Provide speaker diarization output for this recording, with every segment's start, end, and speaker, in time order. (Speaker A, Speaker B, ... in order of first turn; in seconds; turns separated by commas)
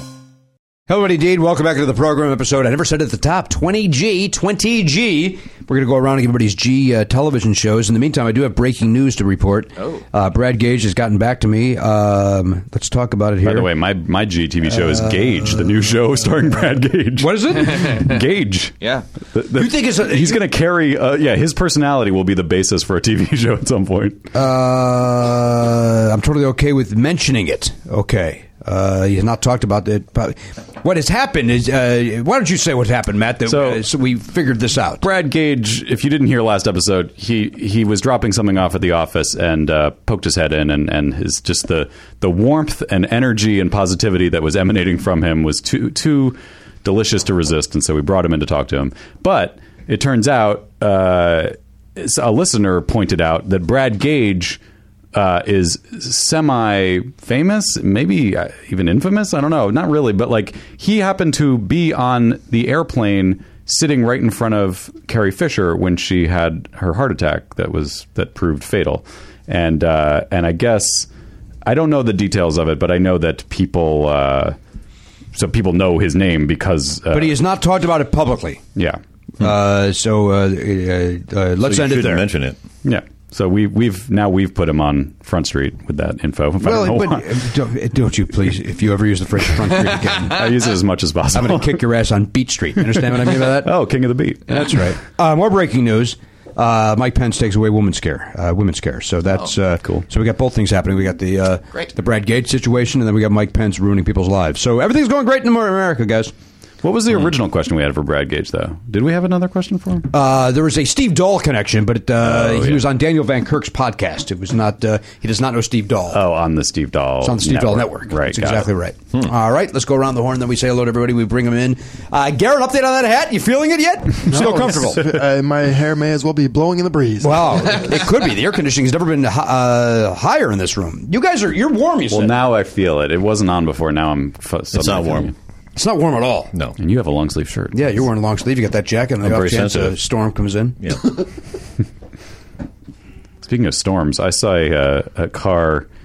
Speaker A: 0.9-13.7, Speaker B: 13.4-18.8, Speaker A: 14.9-15.6, Speaker A: 17.2-17.9, Speaker B: 19.3-24.3, Speaker A: 19.5-20.4, Speaker A: 24.3-35.0, Speaker B: 33.5-33.8, Speaker B: 35.0-54.6, Speaker B: 55.1-71.1, Speaker B: 71.7-74.6, Speaker B: 75.3-77.4, Speaker A: 77.1-78.6, Speaker A: 79.4-82.3, Speaker C: 81.6-82.6, Speaker B: 82.8-87.4, Speaker A: 86.6-90.5, Speaker B: 90.2-91.8, Speaker A: 91.3-93.7, Speaker B: 92.9-94.9, Speaker A: 94.5-106.3, Speaker B: 106.8-110.1, Speaker A: 110.1-116.2, Speaker B: 112.2-112.8, Speaker B: 116.1-118.7, Speaker A: 117.2-125.1, Speaker D: 124.3-128.0, Speaker A: 127.2-132.4, Speaker B: 132.1-135.3, Speaker C: 134.7-135.3, Speaker A: 135.8-136.5, Speaker B: 136.8-137.8, Speaker A: 137.7-140.8, Speaker C: 139.2-140.0, Speaker C: 140.8-141.1, Speaker B: 143.4-145.9